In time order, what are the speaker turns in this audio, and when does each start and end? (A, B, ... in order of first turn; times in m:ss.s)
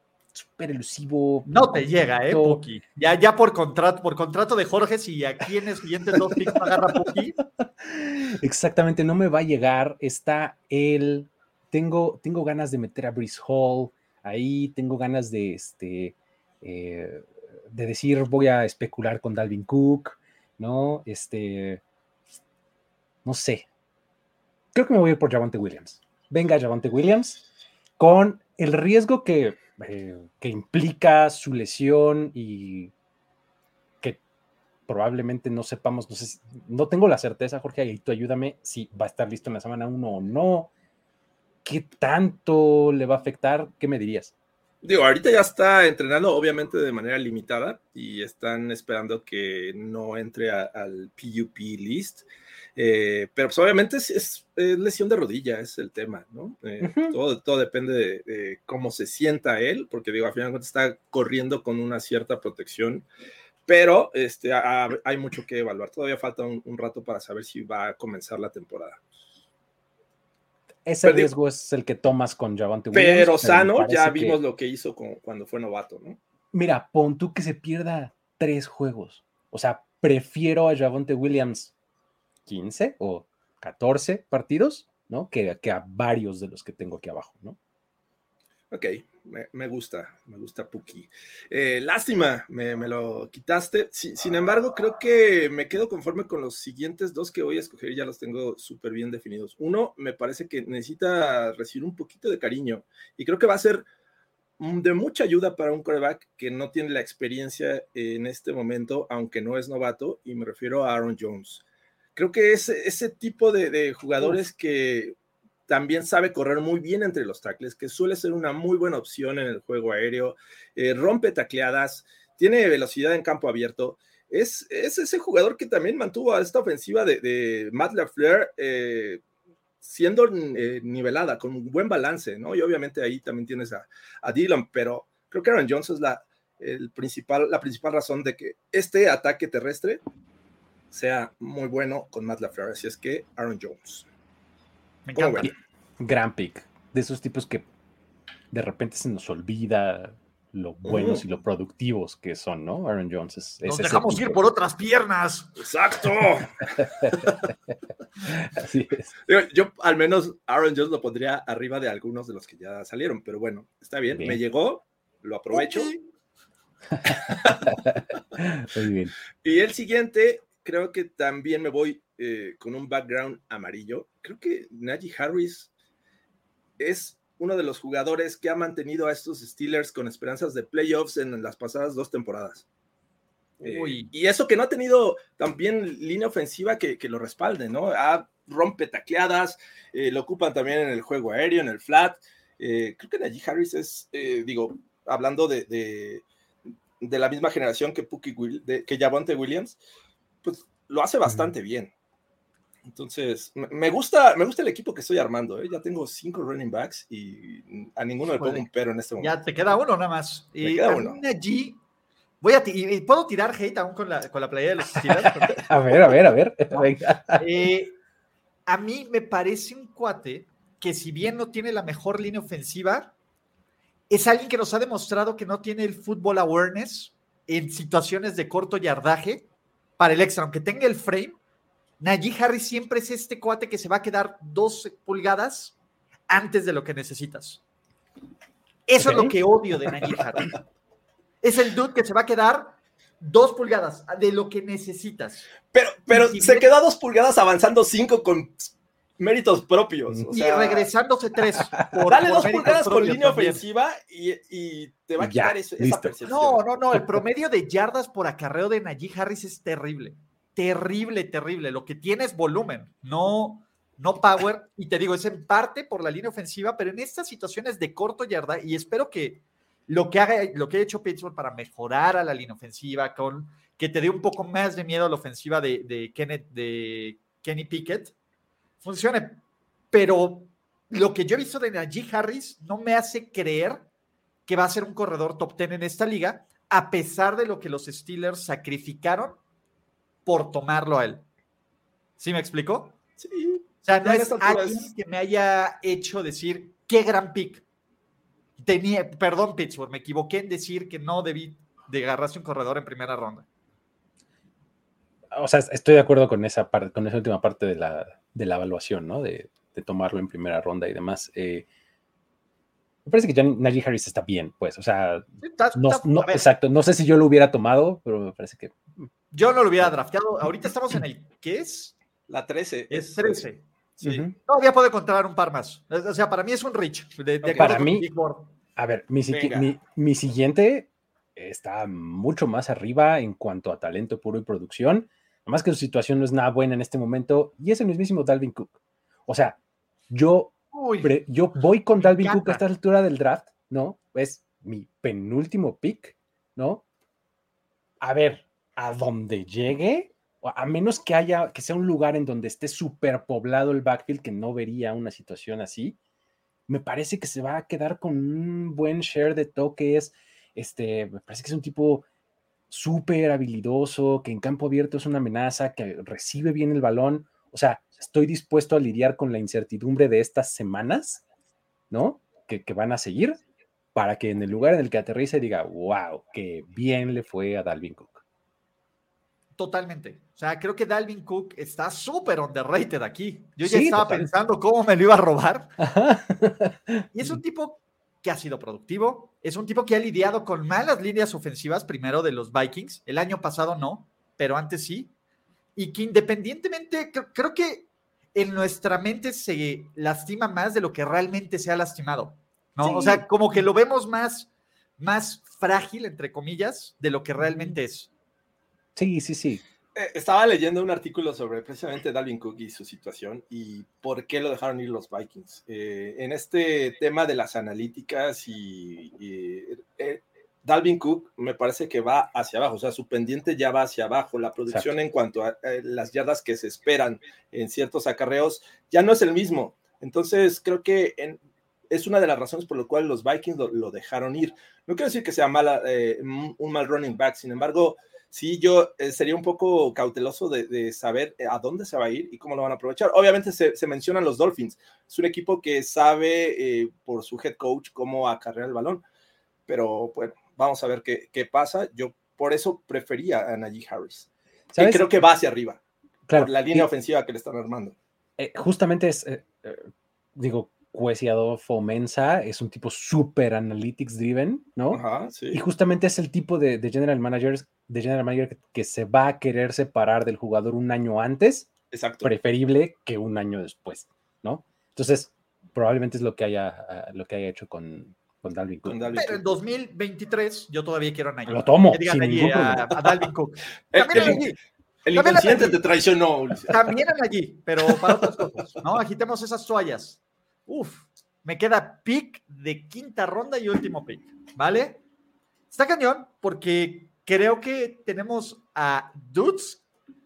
0:00.3-0:02.6 A
0:01.5-0:07.4 B
0:06.5-0:06.7 A
0:07.4-0:21.8 A
0:23.2-0:23.7 A
0:24.7-0:27.4 A
0:28.0-0:32.9 A
0:34.9-0:40.7 A
0:41.6-0:44.3 A
0:44.8-0:52.2 C
0:52.8-1:03.0 C
0:56.8-0:57.2 A
1:03.7-1:09.0 C
1:10.9-1:14.4 A
1:11.0-1:11.3 C
1:12.9-1:16.2 C
1:16.5-1:21.7 A
1:22.5-1:27.6 A
1:28.7-1:43.9 C
1:44.6-1:51.6 C
1:52.2-1:55.2 C
1:55.7-2:09.2 C
2:09.8-2:20.0 C
2:20.9-2:24.1 C
2:25.1-2:25.5 B
2:25.2-2:25.5 C
2:25.4-2:27.7 A
2:28.5-2:34.4 A
2:30.9-2:31.2 C
2:33.6-2:35.6 B
2:35.6-2:37.4 C
2:36.8-2:37.7 A
2:38.2-2:39.1 A
2:39.3-2:45.9 C
2:45.5-2:46.0 B
2:47.0-2:49.2 A
2:49.4-2:55.7 C
2:56.8-3:02.7 C
3:03.6-3:16.2 C
3:03.6-3:04.1 B
3:17.0-3:19.8 C
3:20.4-3:21.9 C
3:21.3-3:21.5 A
3:22.9-3:29.4 C
3:28.3-3:28.6 B
3:29.2-3:31.8 B
3:30.6-3:31.2 C
3:32.4-3:35.7 B
3:35.2-3:37.4 A
3:37.4-3:38.0 B
3:38.7-3:43.1 B
3:44.1-3:49.5 B
3:50.0-3:51.4 B
3:52.0-3:55.7 B
3:56.3-3:57.6 B
3:58.9-4:00.5 B
3:59.0-3:59.4 A
4:01.4-4:05.5 B
4:05.7-4:10.9 C
4:06.1-4:06.7 B
4:10.3-4:13.6 B
4:12.1-4:16.6 C
4:15.2-4:16.2 A
4:16.3-4:38.1 B
4:17.0-4:17.2 A
4:38.8-4:39.4 B
4:39.9-4:43.8 B
4:44.5-4:49.4 B
4:50.3-4:51.2 B
4:52.2-4:53.0 B
4:53.2-4:54.9 C
4:53.8-4:57.6 B
4:58.6-5:03.4 B
5:05.3-5:11.7 A
5:13.0-5:19.1 A
5:15.4-5:16.5 B
5:19.3-5:22.0 B
5:22.3-5:23.4 C
5:22.9-5:23.6 B
5:24.0-5:24.3 C
5:24.0-5:24.4 A
5:24.5-5:28.5 B
5:27.4-5:27.9 C
5:27.6-5:28.1 A
5:28.8-5:38.8 A
5:29.3-5:29.7 C
5:39.3-5:39.6 A
5:40.1-5:46.8 A
5:40.7-5:41.2 B
5:42.0-5:42.6 B
5:48.0-5:56.0 A
5:56.7-6:02.0 A
6:02.7-6:11.2 A
6:11.9-6:13.4 A
6:14.0-6:18.2 A
6:19.6-6:25.7 B
6:23.6-6:24.3 A
6:25.8-6:27.4 A
6:27.1-6:35.1 B
6:35.8-6:48.1 B
6:42.8-6:43.2 A
6:47.4-6:47.7 A
6:49.0-6:49.6 A
6:50.0-7:11.4 C
7:11.9-7:29.0 C
7:29.7-7:35.8 C
7:34.7-7:35.1 A
7:36.3-7:36.9 A
7:36.3-7:38.0 C
7:38.4-7:59.4 A
7:44.9-7:45.6 C
7:51.9-7:52.3 C
7:58.8-7:59.5 C
7:59.2-8:04.6 B
8:01.5-8:02.9 A
8:03.9-8:04.4 C
8:05.0-8:06.9 C
8:05.1-8:05.8 B
8:06.7-8:15.0 B
8:15.7-8:19.8 B